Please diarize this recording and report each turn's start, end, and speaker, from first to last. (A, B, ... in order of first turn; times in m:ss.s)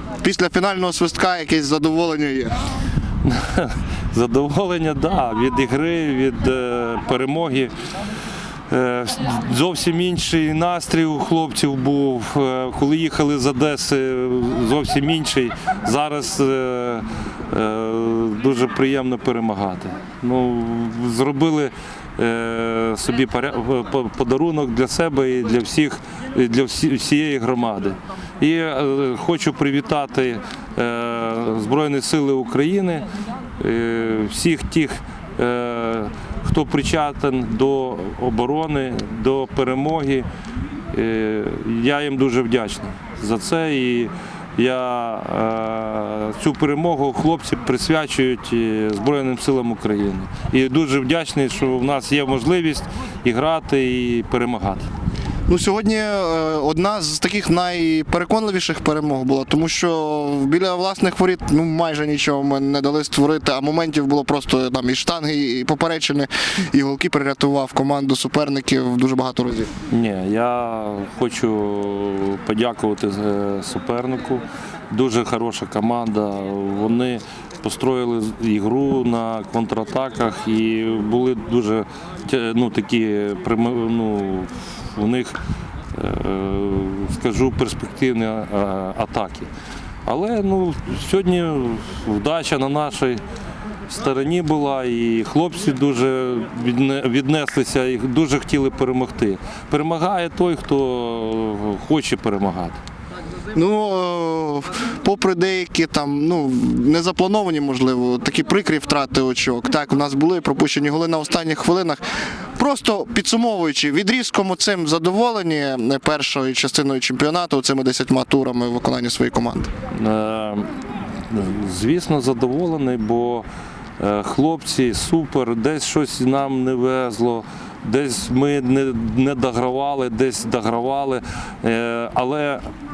0:00.2-0:02.6 A
0:03.2-0:07.7 B
0:08.7-0:33.1 B
0:33.6-0:40.3 B
0:40.9-0:54.9 B
0:55.5-1:09.7 A
1:09.9-1:25.4 B
1:25.9-1:29.5 B
1:30.1-1:33.2 B
1:33.9-1:42.8 B
1:43.5-1:52.0 A
1:52.6-1:59.7 A
1:59.9-2:00.7 B
2:01.3-2:03.5 B
2:04.0-2:12.6 B